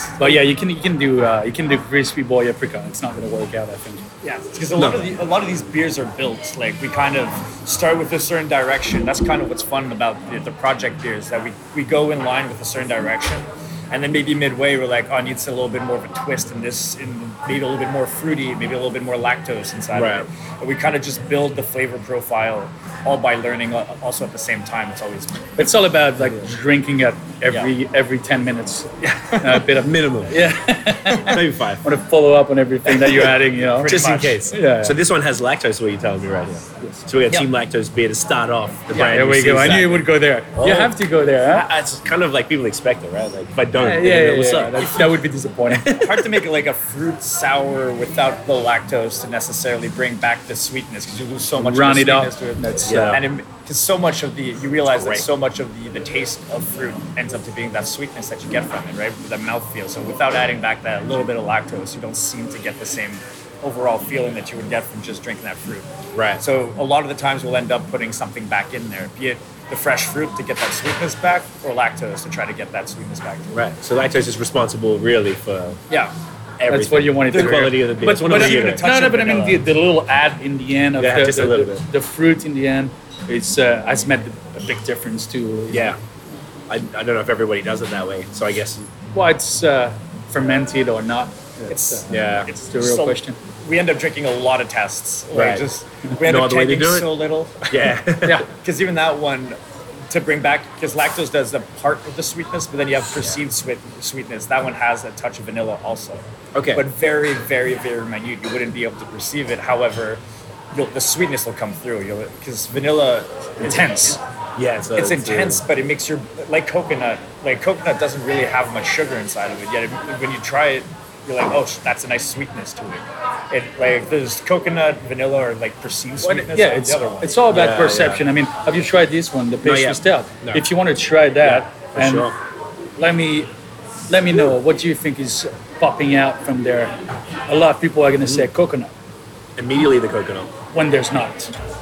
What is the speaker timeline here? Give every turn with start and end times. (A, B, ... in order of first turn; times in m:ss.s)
0:00.2-0:04.1 A
0:04.2-0:25.5 B
0:04.8-0:05.1 C
0:19.9-0:20.3 C
0:25.6-0:35.0 A
0:29.0-0:29.7 B
0:29.8-0:30.4 C
0:31.2-0:31.8 C
0:32.9-0:33.3 C
0:33.2-0:34.4 B
0:33.8-0:44.9 C
0:38.9-0:40.0 B
0:39.0-0:41.7 A
0:43.8-0:45.9 A
0:44.8-0:45.1 B
0:45.7-0:46.5 C
0:45.9-1:13.6 B
0:51.6-0:53.2 A
0:52.8-0:53.2 C
0:54.9-0:55.3 C
1:06.1-1:06.4 C
1:13.5-1:15.8 C
1:15.9-1:16.2 B
1:16.6-1:18.8 C
1:16.7-1:26.0 A
1:17.3-1:19.6 B
1:21.0-1:21.8 C
1:25.7-1:26.0 C
1:26.7-1:28.9 C
1:29.1-1:33.4 A
1:31.7-1:38.0 B
1:32.1-1:32.5 C
1:35.3-1:35.7 C
1:36.2-1:37.1 C
1:37.7-1:38.4 C
1:38.5-1:39.6 B
1:40.1-1:54.2 B
1:46.6-1:46.9 C
1:53.6-1:54.2 A
1:54.6-1:55.6 C
1:55.0-2:07.4 B
2:06.2-2:12.3 A
2:07.5-2:08.2 C
2:09.6-2:10.6 C
2:11.4-2:12.4 C
2:13.0-2:13.5 A
2:14.1-2:17.0 A
2:17.5-2:18.9 A
2:19.6-2:20.5 C
2:20.7-2:21.5 A